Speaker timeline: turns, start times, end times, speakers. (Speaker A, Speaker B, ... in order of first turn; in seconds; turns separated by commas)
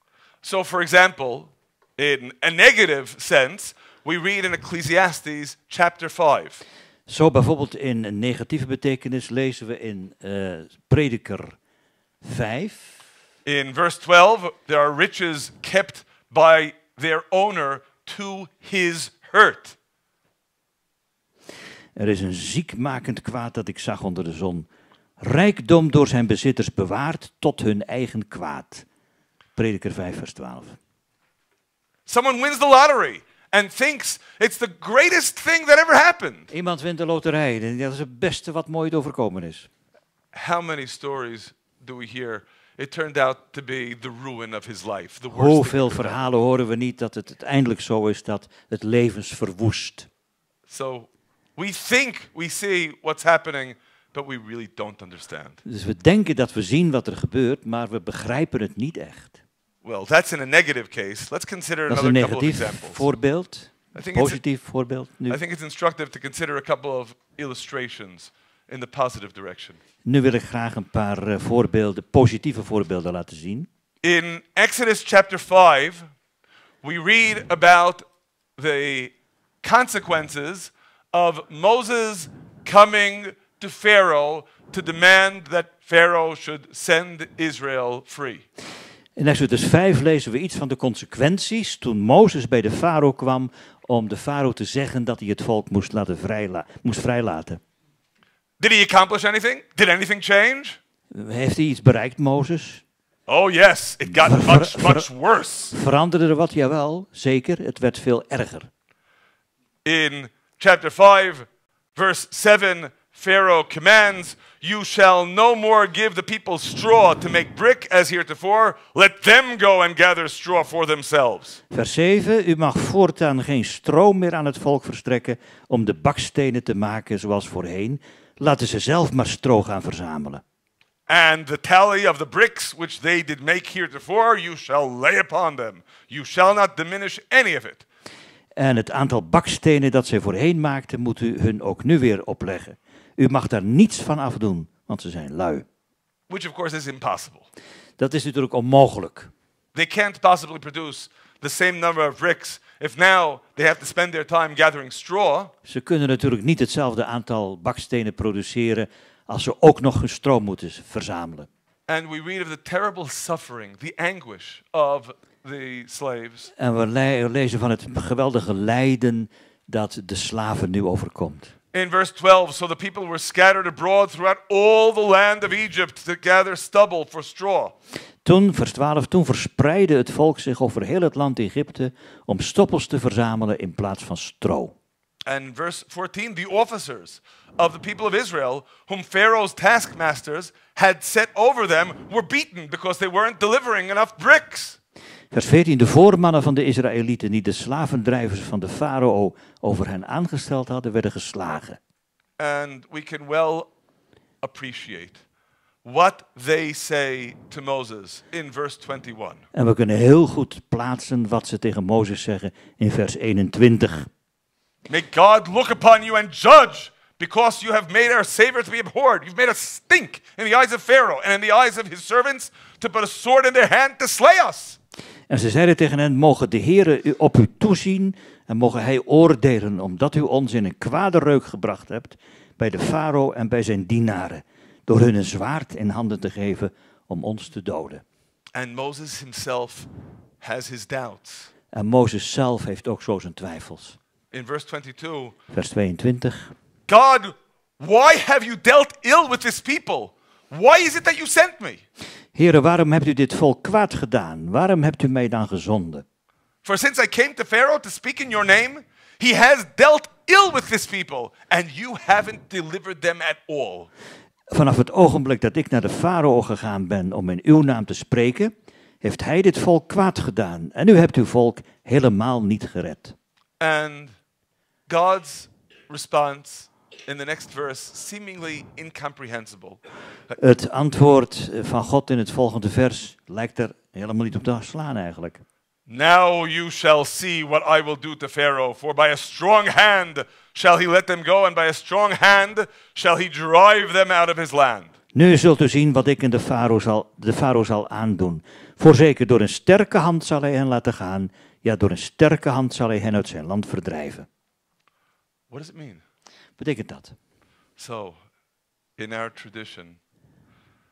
Speaker A: 0.4-6.6, Speaker B: 7.1-11.6, Speaker B: 12.2-13.0, Speaker A: 13.4-19.8, Speaker B: 22.0-24.7, Speaker B: 25.2-28.9, Speaker B: 29.6-30.8, Speaker A: 32.1-36.5, Speaker B: 36.5-39.7, Speaker A: 40.3-46.2, Speaker B: 45.3-50.1, Speaker A: 50.7-55.6, Speaker B: 55.6-59.4, Speaker A: 59.8-63.0, Speaker B: 61.9-65.4, Speaker A: 64.0-64.4, Speaker A: 65.3-69.8, Speaker B: 70.0-73.7, Speaker A: 74.0-76.1, Speaker A: 76.8-88.5, Speaker B: 89.2-97.6, Speaker A: 98.6-100.8, Speaker B: 101.1-102.8, Speaker A: 103.3-105.8, Speaker B: 104.1-105.1, Speaker B: 105.7-108.7, Speaker A: 109.8-121.6, Speaker B: 121.7-130.4, Speaker A: 131.1-137.9, Speaker B: 138.6-145.7, Speaker A: 146.3-147.5, Speaker B: 148.0-149.3, Speaker A: 149.8-155.5, Speaker B: 155.7-161.5, Speaker A: 161.9-166.5, Speaker B: 166.6-171.5, Speaker A: 171.7-177.8, Speaker B: 178.2-184.7, Speaker A: 185.3-194.8, Speaker B: 195.3-201.8, Speaker A: 202.4-203.7, Speaker A: 204.4-205.2, Speaker A: 205.8-209.5, Speaker B: 209.5-214.1, Speaker A: 214.9-224.8, Speaker B: 225.3-238.0, Speaker A: 238.6-239.9, Speaker A: 240.4-241.5, Speaker B: 241.7-244.0, Speaker A: 244.3-245.4, Speaker B: 245.5-246.5, Speaker A: 246.9-251.8, Speaker B: 252.3-256.1, Speaker A: 256.6-263.9, Speaker B: 264.5-273.1, Speaker A: 273.6-274.2, Speaker A: 274.9-280.4, Speaker B: 280.4-285.4, Speaker A: 285.9-294.9, Speaker B: 295.1-304.3, Speaker A: 305.5-306.0, Speaker B: 306.6-307.2, Speaker A: 307.8-308.2, Speaker A: 309.0-310.0